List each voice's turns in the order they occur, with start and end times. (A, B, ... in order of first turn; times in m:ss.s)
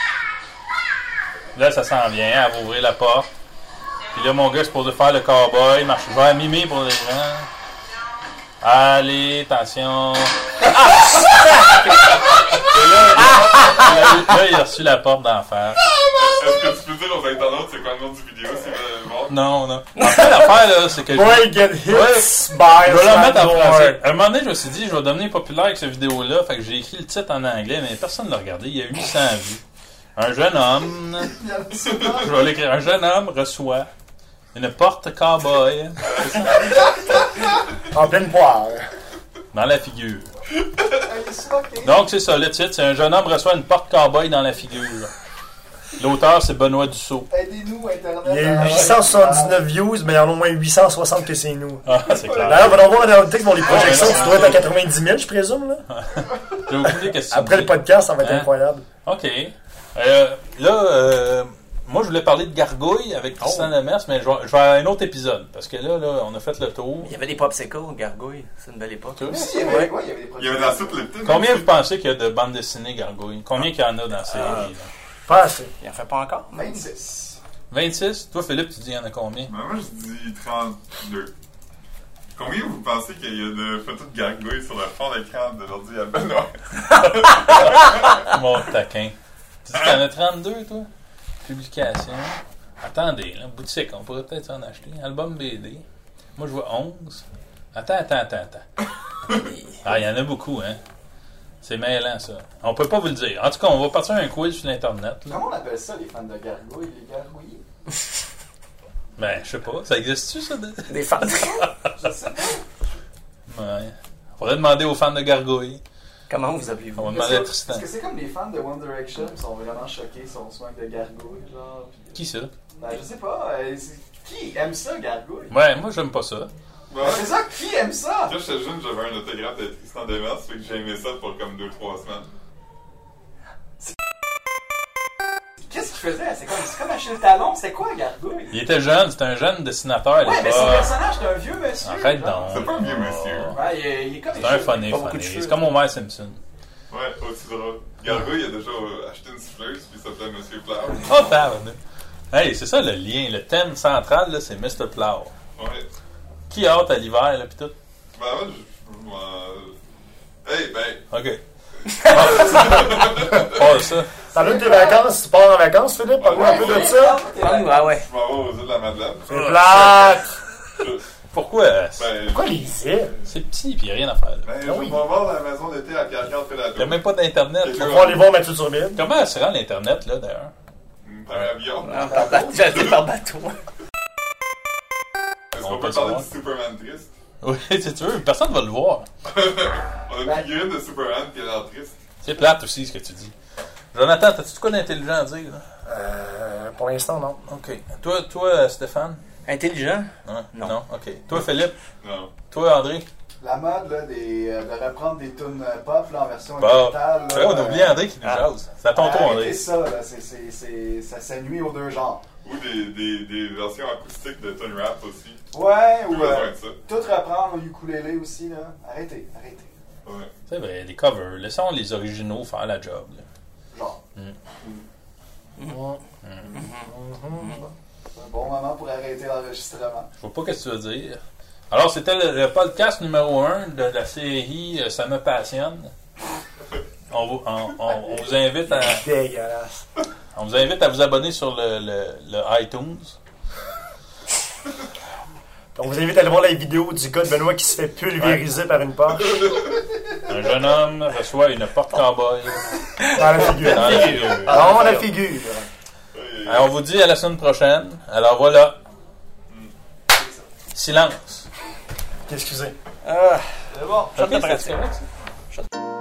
0:01.6-0:03.3 A
0:04.1-0:07.5 A
0:08.6-0:10.4 A
0:12.6-0:15.8 A
0:12.6-0:13.3 B
0:13.4-0:13.7 C
0:16.1-0:19.4 B
0:19.3-0:29.6 A
0:20.0-0:20.4 C
0:21.1-0:24.0 D
0:30.2-0:31.4 A
0:31.2-0:32.4 E
0:31.9-0:32.2 B
0:32.2-0:33.9 A
0:34.5-0:36.5 A
0:37.9-0:38.8 D
0:39.5-0:40.3 A
0:41.1-0:42.0 E
0:41.8-0:45.1 A
0:46.0-0:47.3 A
0:47.3-0:49.7 E
0:48.2-0:55.8 D
0:51.8-0:53.0 A
0:51.9-0:53.1 E
0:53.6-0:54.6 A
0:53.8-0:54.3 E
0:55.9-0:58.5 A
0:56.8-0:58.8 D
0:59.0-1:07.1 A
1:03.4-1:03.7 C
1:07.0-1:09.9 C
1:09.2-1:09.5 A
1:09.3-1:11.1 E
1:10.4-1:11.8 B
1:11.2-1:14.9 A
1:14.3-1:14.7 C
1:15.2-1:15.7 D
1:15.8-1:16.8 C
1:16.5-1:17.4 E
1:17.7-1:19.5 A
1:19.5-1:21.3 B
1:22.4-1:28.3 B
1:27.5-1:30.9 A
1:31.4-1:35.8 A
1:36.4-1:38.6 A
1:39.3-1:39.8 C
1:39.8-1:40.8 A
1:41.6-1:45.4 A
1:45.3-1:47.6 E
1:49.2-1:51.0 A
1:50.9-1:51.6 C
1:51.3-1:52.6 E
1:53.5-1:55.8 A
1:56.3-1:57.2 C
1:57.0-1:57.9 A
1:57.1-2:02.2 E
2:02.1-2:02.5 A
2:02.8-2:05.5 E
2:05.5-2:06.5 A
2:06.9-2:07.4 B
2:07.0-2:08.4 E
2:08.3-2:12.3 B
2:15.7-2:18.6 E
2:18.5-2:20.9 A
2:20.2-2:22.7 E
2:21.8-2:23.6 A
2:22.5-2:23.6 B
2:23.5-2:25.0 E
2:24.3-2:26.4 A
2:24.9-2:25.7 C
2:26.9-2:31.3 B
2:31.0-2:31.8 A
2:32.3-2:35.3 A
2:35.6-2:35.9 B
2:36.5-2:37.8 A
2:38.1-2:39.8 B
2:40.4-2:41.1 B
2:41.1-2:41.4 A
2:41.9-2:43.8 B
2:42.0-2:44.1 A
2:44.3-2:45.0 E
2:44.3-2:47.2 D
2:46.2-2:47.1 B
2:46.3-2:47.9 E
2:47.3-2:48.1 C
2:47.9-2:49.5 B
2:49.3-2:50.2 A
2:49.3-2:50.2 D
2:50.8-2:51.0 B
2:51.3-2:52.1 A
2:52.0-2:53.3 B
2:52.3-2:53.1 D
2:53.3-2:54.5 A
2:54.4-2:57.1 B
2:54.6-2:55.1 D
2:56.8-2:58.1 A
2:57.6-2:58.3 B
2:57.7-2:59.0 D
2:59.0-3:00.5 A
3:01.0-3:03.0 B
3:01.8-3:03.6 C
3:02.0-3:02.4 E
3:05.5-3:07.1 B
3:05.6-3:06.3 A
3:07.4-3:09.1 A
3:09.3-3:12.0 B
3:12.2-3:13.3 A
3:13.9-3:15.6 A
3:15.8-3:17.4 D
3:17.5-3:19.2 A
3:19.4-3:20.8 C
3:20.2-3:21.8 A
3:22.0-3:22.3 B
3:22.5-3:23.0 A
3:23.4-3:28.0 E
3:26.6-3:29.7 A
3:28.9-3:32.2 E
3:32.4-3:35.4 B
3:35.5-3:39.7 E
3:36.0-3:36.8 B
3:40.0-3:40.3 B
3:40.5-3:43.2 A
3:43.7-3:44.0 E
3:45.6-3:46.0 D
3:46.2-3:46.5 A
3:46.5-3:47.6 C
3:46.8-3:47.7 D
3:48.2-3:50.1 E
3:50.2-3:55.9 A
3:57.1-3:59.1 A
3:58.7-3:59.9 D
4:00.4-4:03.2 A
4:05.8-4:09.4 D
4:09.1-4:09.8 B
4:10.3-4:12.6 A
4:13.0-4:15.1 C
4:13.1-4:15.6 D
4:13.4-4:14.6 A
4:16.1-4:16.7 B
4:16.4-4:18.8 A
4:20.1-4:20.4 E
4:20.7-4:21.5 A
4:22.3-4:22.8 D
4:23.0-4:23.4 C
4:23.7-4:24.4 E
4:24.1-4:24.8 C
4:24.2-4:25.1 A